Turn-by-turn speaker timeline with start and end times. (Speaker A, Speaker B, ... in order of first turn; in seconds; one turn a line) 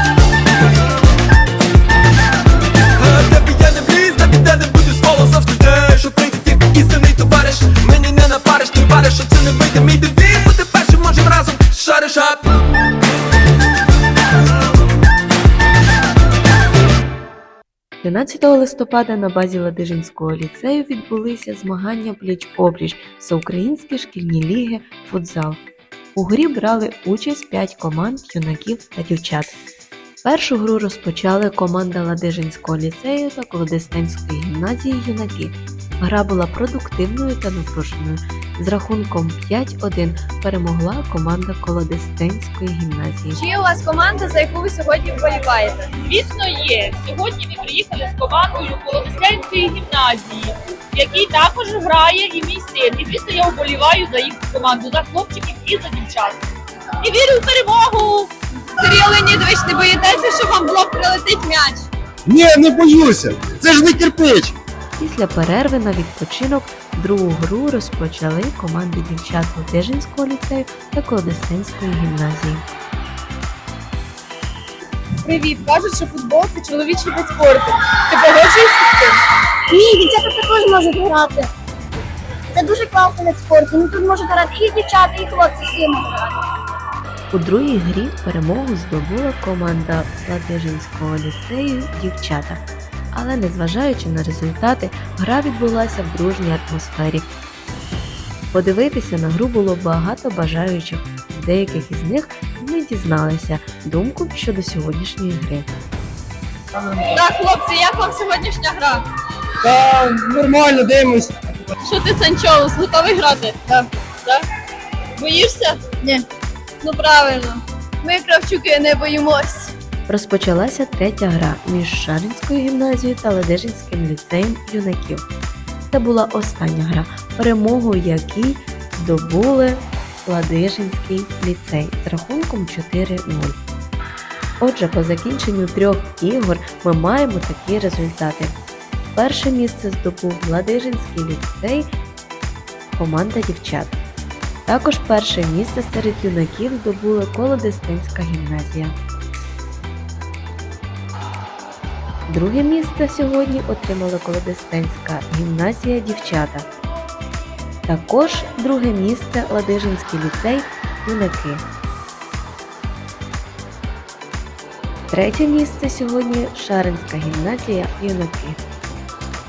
Speaker A: 3.0-12.4
Speaker B: 18.0-25.6
Speaker B: 26.1-29.5
Speaker B: 30.2-43.4
Speaker C: 43.4-45.9
Speaker D: 46.0-56.4
Speaker D: 57.0-58.3
Speaker C: 58.8-61.9
Speaker E: 62.3-64.6
Speaker B: 65.0-72.7
Speaker C: 75.2-79.2
Speaker F: 79.7-81.5
Speaker F: 82.5-86.4
Speaker B: 87.3-97.3
Speaker B: 98.5-105.7
Speaker C: 107.0-109.0
Speaker E: 109.7-111.3
Speaker C: 111.8-114.5
Speaker C: 115.2-116.2
Speaker C: 116.8-119.7
Speaker B: 120.1-125.2
Speaker B: 125.9-133.6
Speaker B: 134.6-138.5
Speaker B: 139.2-141.9
Speaker B: 142.9-144.0
Speaker B: 144.7-148.9
Speaker B: 152.3-156.7
Speaker B: 157.9-161.6
Speaker B: 165.1-168.6